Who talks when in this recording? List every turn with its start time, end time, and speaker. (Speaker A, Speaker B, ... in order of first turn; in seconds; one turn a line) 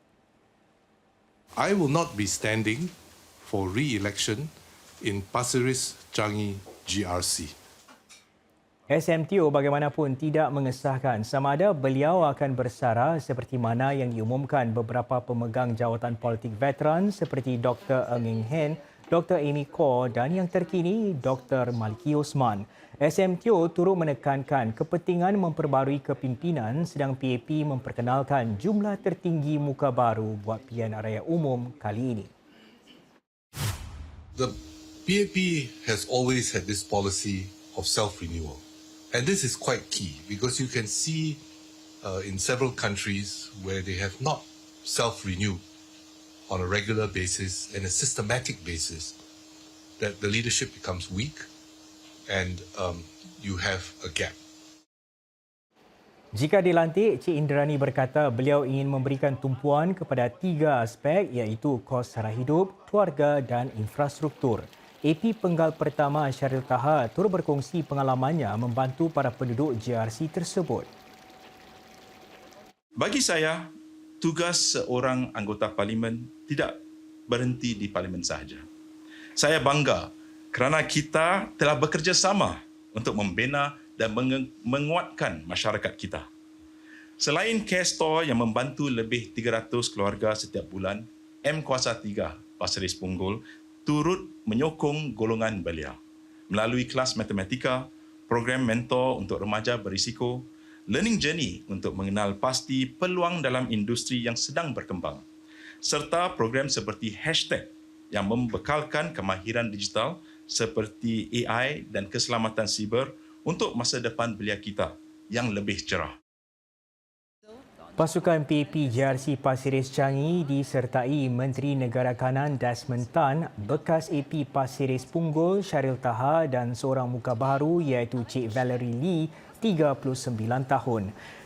Speaker A: 1.6-7.5
Speaker B: 8.9-32.3
Speaker A: 34.3-41.4
Speaker A: 42.0-45.6
Speaker A: 46.5-49.2
Speaker A: 50.0-51.5
Speaker A: 52.3-54.4
Speaker B: 56.4-70.9
Speaker C: 73.0-78.7
Speaker C: 79.4-86.2
Speaker C: 87.2-96.0
Speaker C: 96.5-105.2
Speaker C: 105.8-116.2
Speaker B: 118.0-131.1